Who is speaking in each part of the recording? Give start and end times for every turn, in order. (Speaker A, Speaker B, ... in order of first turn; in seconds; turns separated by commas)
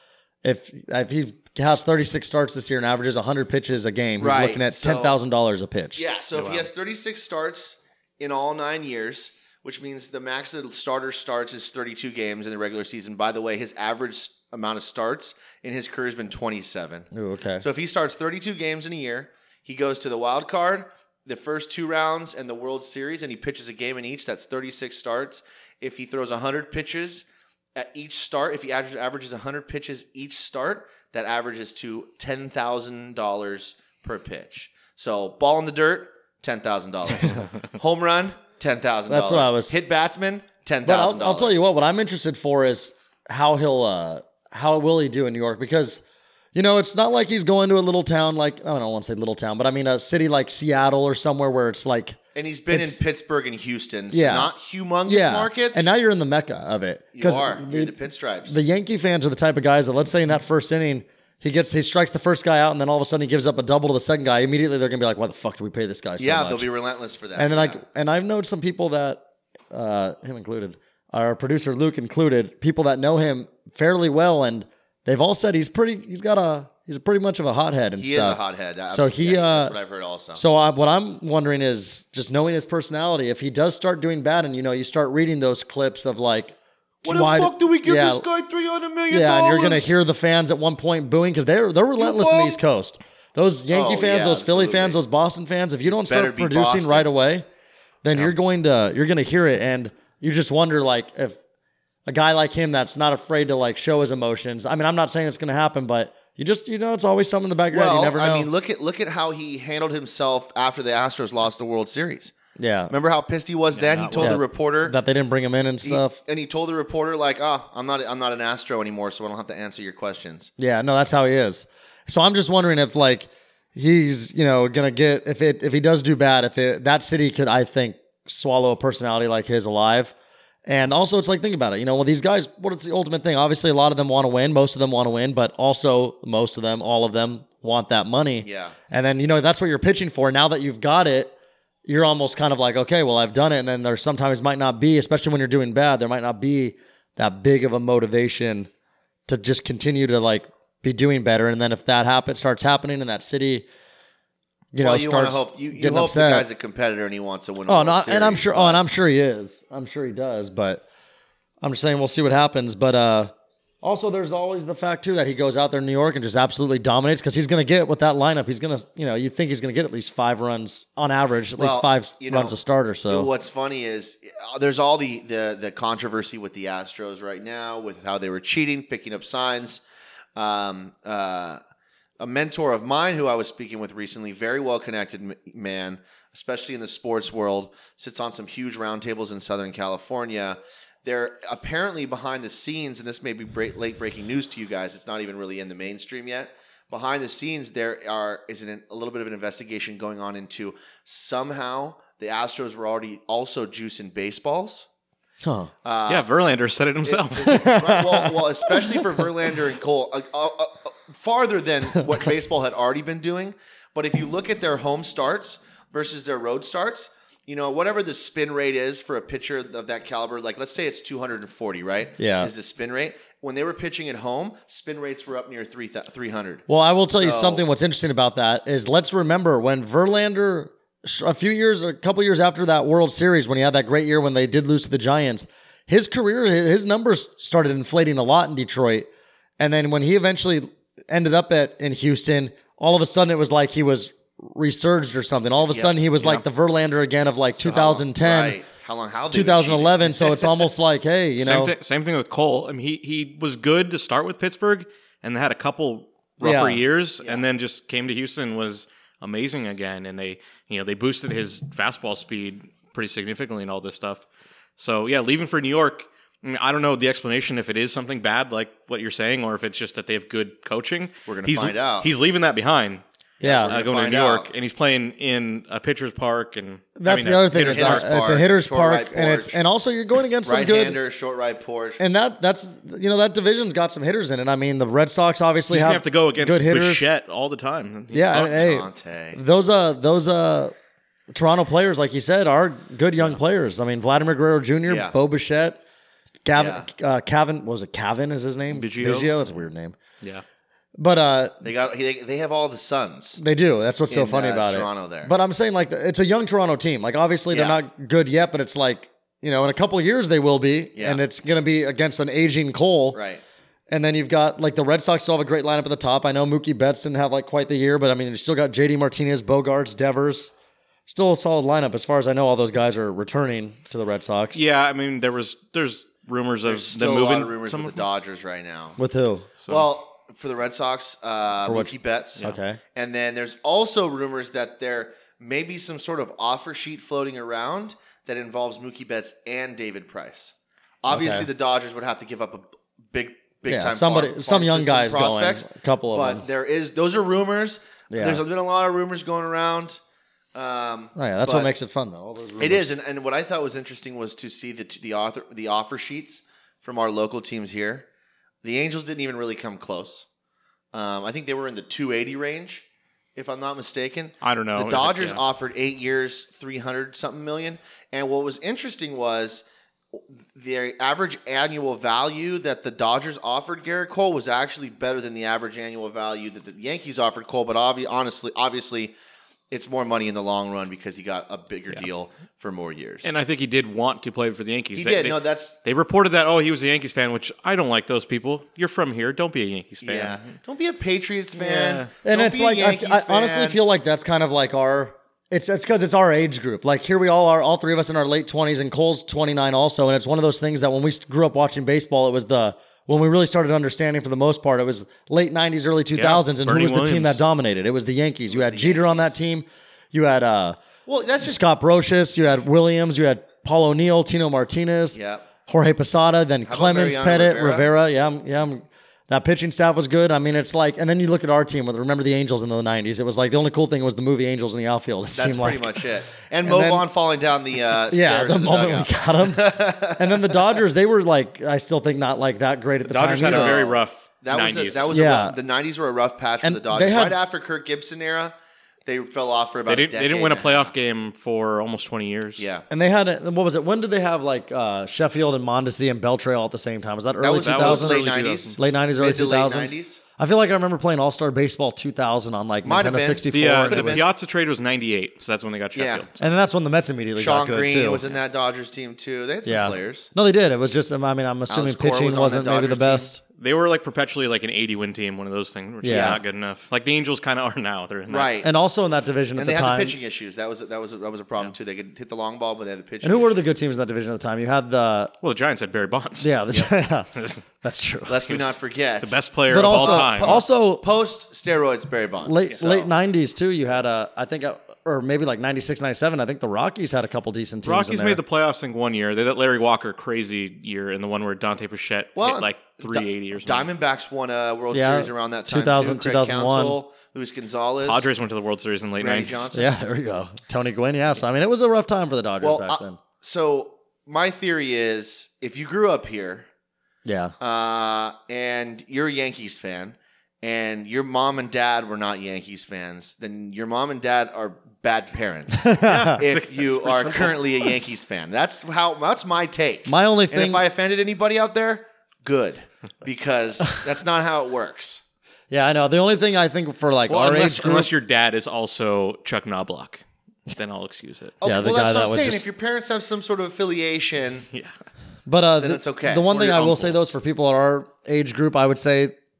Speaker A: 0.4-6.0, Speaker B: 4.2-5.2, Speaker B: 5.9-17.1, Speaker C: 6.3-6.7, Speaker A: 17.1-17.6, Speaker B: 17.6-41.7, Speaker A: 39.1-39.8, Speaker A: 40.8-46.0, Speaker A: 46.5-52.2, Speaker B: 52.3-55.9, Speaker A: 52.7-53.0, Speaker A: 54.1-54.5, Speaker A: 55.1-57.9, Speaker B: 57.1-58.6, Speaker A: 58.5-66.7, Speaker B: 66.2-67.8, Speaker A: 67.4-79.7, Speaker B: 78.0-80.4, Speaker A: 80.3-88.2, Speaker B: 87.0-89.9, Speaker A: 89.1-97.4, Speaker B: 92.0-92.6, Speaker B: 93.7-95.0, Speaker B: 95.9-97.1, Speaker A: 98.0-101.4, Speaker A: 102.1-108.5, Speaker B: 107.7-112.3, Speaker A: 112.6-112.9, Speaker B: 112.9-115.0, Speaker C: 113.7-114.3, Speaker A: 114.1-116.2, Speaker B: 115.8-120.5, Speaker A: 120.6-130.1, Speaker A: 130.7-141.3, Speaker B: 138.4-138.8, Speaker A: 141.8-148.7, Speaker A: 149.3-153.7, Speaker A: 154.7-156.4, Speaker B: 154.8-158.8, Speaker A: 157.7-160.8, Speaker A: 161.6-173.3, Speaker B: 171.6-172.5, Speaker B: 173.1-179.8, Speaker B: 180.3-181.6, Speaker B: 182.2-204.9, Speaker A: 205.4-205.7, Speaker B: 205.8-206.3, Speaker C: 206.1-207.7, Speaker B: 207.0-227.6, Speaker A: 207.5-209.2, Speaker A: 222.2-222.5, Speaker A: 226.7-239.1, Speaker A: 239.6-248.6, Speaker B: 245.7-246.0, Speaker C: 246.2-246.4, Speaker B: 247.6-250.6, Speaker A: 249.3-251.7, Speaker C: 251.4-264.2, Speaker A: 256.4-256.8, Speaker C: 264.8-273.0, Speaker B: 271.3-272.1, Speaker B: 273.4-274.5, Speaker A: 273.4-273.7, Speaker C: 273.5-278.1, Speaker A: 277.0-281.0, Speaker B: 277.5-279.6, Speaker B: 280.4-282.0, Speaker A: 282.0-287.1, Speaker C: 285.7-288.8, Speaker A: 288.1-290.7, Speaker B: 288.3-289.4, Speaker A: 291.3-295.8, Speaker B: 294.9-295.1, Speaker A: 296.4-300.0, Speaker B: 296.5-296.9, Speaker C: 298.7-299.4, Speaker A: 301.0-301.7, Speaker B: 301.6-303.4, Speaker A: 303.4-313.2, Speaker B: 304.1-305.3, Speaker B: 307.5-307.8, Speaker B: 310.9-311.2, Speaker B: 313.1-313.4, Speaker A: 313.9-320.5, Speaker A: 321.1-324.6, Speaker C: 324.5-328.0, Speaker B: 326.6-329.0, Speaker A: 329.0-329.5, Speaker B: 329.7-350.0, Speaker A: 331.6-332.8, Speaker A: 341.1-341.5, Speaker A: 343.7-346.4, Speaker A: 348.1-348.4, Speaker B: 350.5-351.7, Speaker A: 351.1-352.9, Speaker B: 352.6-358.1, Speaker B: 358.6-360.2, Speaker B: 360.9-362.8, Speaker B: 363.4-369.6, Speaker C: 364.4-365.4, Speaker B: 370.1-379.1, Speaker B: 379.7-383.3, Speaker C: 383.2-390.5, Speaker B: 384.9-385.8, Speaker B: 390.0-393.8, Speaker C: 391.6-392.1, Speaker A: 392.2-410.8, Speaker C: 406.1-407.4, Speaker B: 408.5-409.3, Speaker B: 411.1-411.6, Speaker A: 411.4-426.0, Speaker B: 415.1-415.5, Speaker B: 416.6-417.9, Speaker B: 425.3-430.7, Speaker A: 426.6-427.1, Speaker A: 428.1-433.8, Speaker C: 433.1-435.1, Speaker B: 433.4-438.5, Speaker A: 435.1-435.6, Speaker A: 436.6-437.4, Speaker B: 439.1-440.9, Speaker C: 439.9-442.6, Speaker B: 442.6-442.9, Speaker A: 442.9-454.3, Speaker B: 447.4-450.2, Speaker C: 447.6-448.9, Speaker B: 452.8-454.3, Speaker C: 453.5-456.4, Speaker B: 455.9-456.2, Speaker A: 456.4-458.2, Speaker B: 457.4-460.3, Speaker A: 459.6-463.4, Speaker B: 461.7-463.3, Speaker C: 463.6-468.6, Speaker A: 466.0-466.4, Speaker B: 466.1-466.4, Speaker B: 468.3-468.7, Speaker A: 468.6-470.1, Speaker B: 469.6-473.6, Speaker A: 473.2-475.3, Speaker C: 475.4-477.6, Speaker A: 476.4-477.3, Speaker A: 477.8-478.4, Speaker B: 478.3-483.1, Speaker C: 478.5-480.6, Speaker A: 479.7-481.0, Speaker A: 482.4-488.4, Speaker C: 487.8-493.9, Speaker B: 492.4-498.3, Speaker A: 494.9-497.0, Speaker C: 498.0-499.7, Speaker B: 499.2-499.9, Speaker A: 499.7-503.2, Speaker B: 502.6-506.7, Speaker A: 507.2-507.5, Speaker B: 507.6-525.2, Speaker A: 515.8-516.4, Speaker C: 516.0-517.9, Speaker A: 520.0-520.8, Speaker A: 525.7-528.1, Speaker C: 527.3-531.6, Speaker B: 531.6-534.7, Speaker A: 531.6-532.6, Speaker A: 535.5-539.3, Speaker B: 535.8-537.1